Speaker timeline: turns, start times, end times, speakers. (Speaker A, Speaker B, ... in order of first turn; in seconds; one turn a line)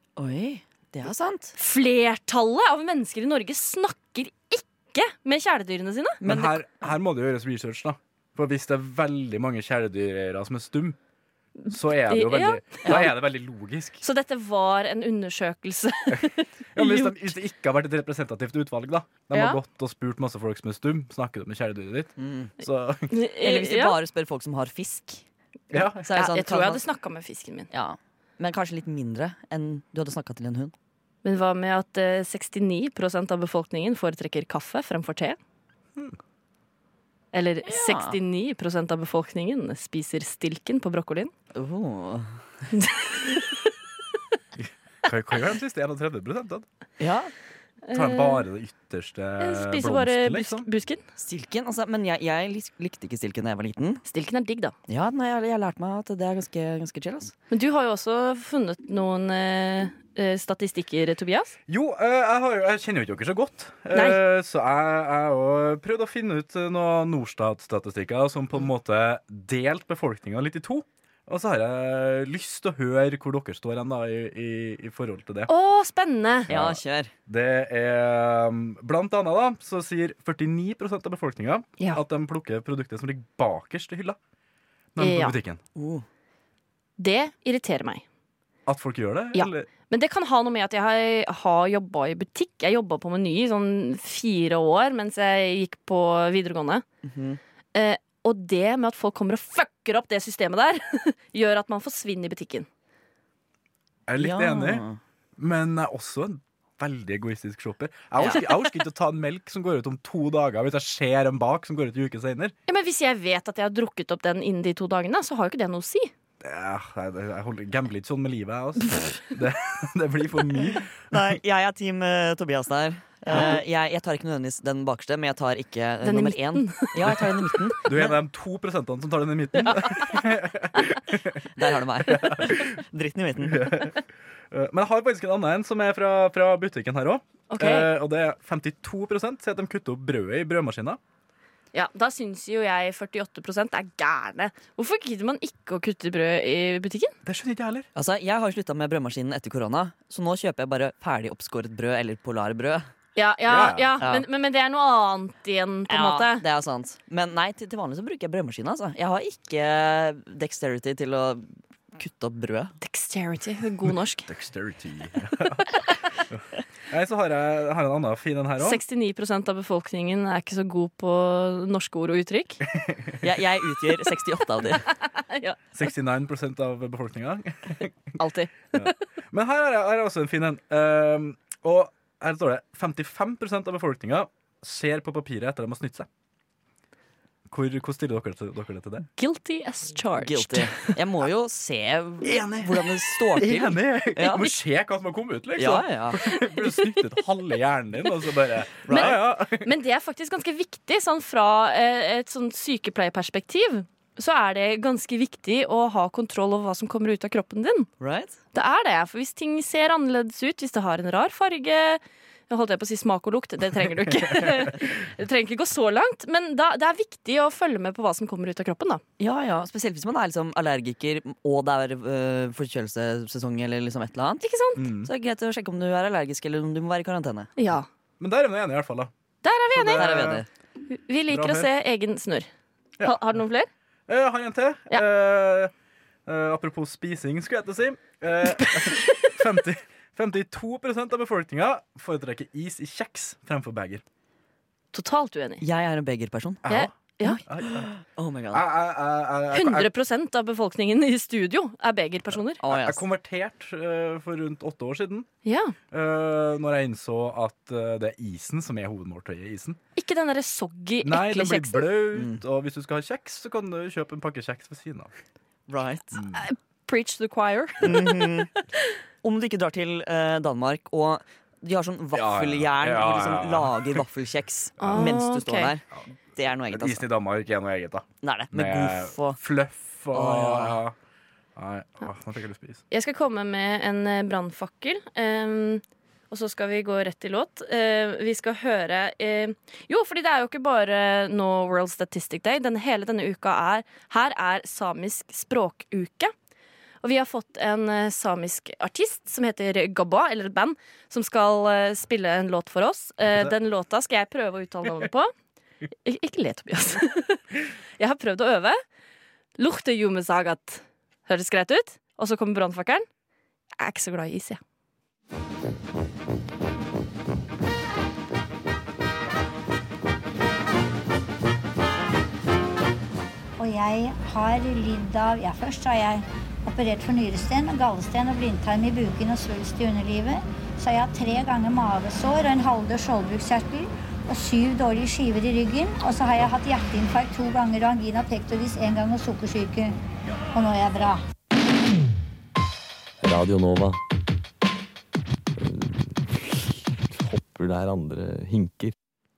Speaker A: 0.1-1.5
Speaker B: 1.6-6.2
Speaker A: 6.2-6.6
Speaker C: 6.2-11.0
Speaker B: 11.6-13.1
Speaker C: 11.7-14.0
Speaker A: 12.8-13.1
Speaker B: 14.0-17.3
Speaker C: 16.7-23.1
Speaker B: 19.3-19.6
Speaker A: 22.2-22.5
Speaker B: 23.1-23.9
Speaker A: 23.4-25.2
Speaker C: 25.7-26.1
Speaker A: 25.9-26.8
Speaker B: 26.1-27.7
Speaker A: 27.7-30.7
Speaker B: 31.2-35.4
Speaker B: 37.3-41.3
Speaker A: 37.6-38.2
Speaker A: 41.5-42.3
Speaker B: 42.7-43.6
Speaker C: 44.6-46.6
Speaker A: 47.0-47.3
Speaker B: 47.9-48.4
Speaker C: 47.9-50.7
Speaker B: 49.4-51.0
Speaker A: 51.2-54.0
Speaker B: 54.1-54.8
Speaker A: 54.9-57.3
Speaker B: 57.5-61.5
Speaker C: 61.7-75.5
Speaker B: 63.9-64.2
Speaker B: 75.5-76.5
Speaker A: 76.5-77.1
Speaker C: 76.5-84.2
Speaker C: 84.9-85.6
Speaker B: 85.0-85.3
Speaker A: 85.8-86.0
Speaker B: 87.0-88.0
Speaker C: 88.7-89.7
Speaker B: 89.3-96.8
Speaker A: 97.0-97.4
Speaker B: 97.7-102.7
Speaker C: 104.1-104.8
Speaker A: 104.2-105.0
Speaker C: 105.4-112.5
Speaker A: 108.2-108.5
Speaker B: 112.7-116.1
Speaker C: 116.4-120.9
Speaker A: 121.1-128.2
Speaker B: 126.0-127.8
Speaker C: 127.8-131.4
Speaker A: 131.5-133.7
Speaker C: 132.0-132.6
Speaker C: 133.5-134.0
Speaker C: 134.5-141.0
Speaker B: 137.5-137.9
Speaker B: 141.7-147.1
Speaker C: 147.2-147.9
Speaker A: 147.9-152.9
Speaker B: 153.2-156.4
Speaker C: 153.4-153.9
Speaker A: 154.0-154.2
Speaker A: 155.9-162.7
Speaker B: 162.8-164.3
Speaker C: 164.3-168.8
Speaker B: 168.6-172.6
Speaker C: 172.8-173.2
Speaker A: 173.2-174.8
Speaker B: 175.1-175.6
Speaker C: 175.7-177.9
Speaker B: 178.2-178.9
Speaker C: 178.8-186.1
Speaker C: 187.5-189.1
Speaker B: 189.2-190.9
Speaker A: 190.2-194.5
Speaker C: 192.2-199.7
Speaker A: 195.6-196.2
Speaker A: 198.8-199.2
Speaker B: 198.9-207.9
Speaker A: 208.0-208.3
Speaker B: 208.5-219.0
Speaker A: 219.2-224.4
Speaker B: 224.4-224.8
Speaker C: 224.8-225.1
Speaker A: 225.0-227.5
Speaker B: 227.6-227.9
Speaker C: 228.2-229.1
Speaker B: 229.4-230.2
Speaker C: 229.7-230.4
Speaker A: 229.9-230.5
Speaker B: 230.9-232.5
Speaker C: 231.3-231.7
Speaker B: 233.0-233.7
Speaker C: 234.1-235.7
Speaker C: 236.2-244.0
Speaker B: 238.6-239.2
Speaker B: 244.9-245.6
Speaker A: 245.6-246.7
Speaker C: 246.7-246.9
Speaker B: 246.7-247.4
Speaker A: 247.3-248.7
Speaker C: 247.4-247.9
Speaker C: 248.5-249.9
Speaker B: 249.5-252.6
Speaker A: 252.6-253.0
Speaker C: 252.6-255.3
Speaker B: 255.4-255.7
Speaker C: 255.9-259.8
Speaker B: 259.9-261.9
Speaker C: 261.0-265.1
Speaker A: 262.1-262.4
Speaker A: 265.7-266.2
Speaker B: 266.3-268.6
Speaker A: 267.8-268.5
Speaker A: 269.2-277.0
Speaker C: 272.1-274.0
Speaker C: 274.8-275.1
Speaker B: 274.8-275.7
Speaker C: 276.7-280.9
Speaker A: 278.2-279.4
Speaker A: 280.1-280.8
Speaker C: 281.6-282.8
Speaker B: 282.9-296.3
Speaker B: 297.0-305.3
Speaker C: 303.3-303.5
Speaker B: 306.0-307.4
Speaker B: 308.0-308.8
Speaker B: 309.6-313.1
Speaker B: 313.8-314.6
Speaker D: 323.6-339.9
Speaker D: 340.5-341.2
Speaker E: 343.2-344.0
Speaker E: 345.6-348.9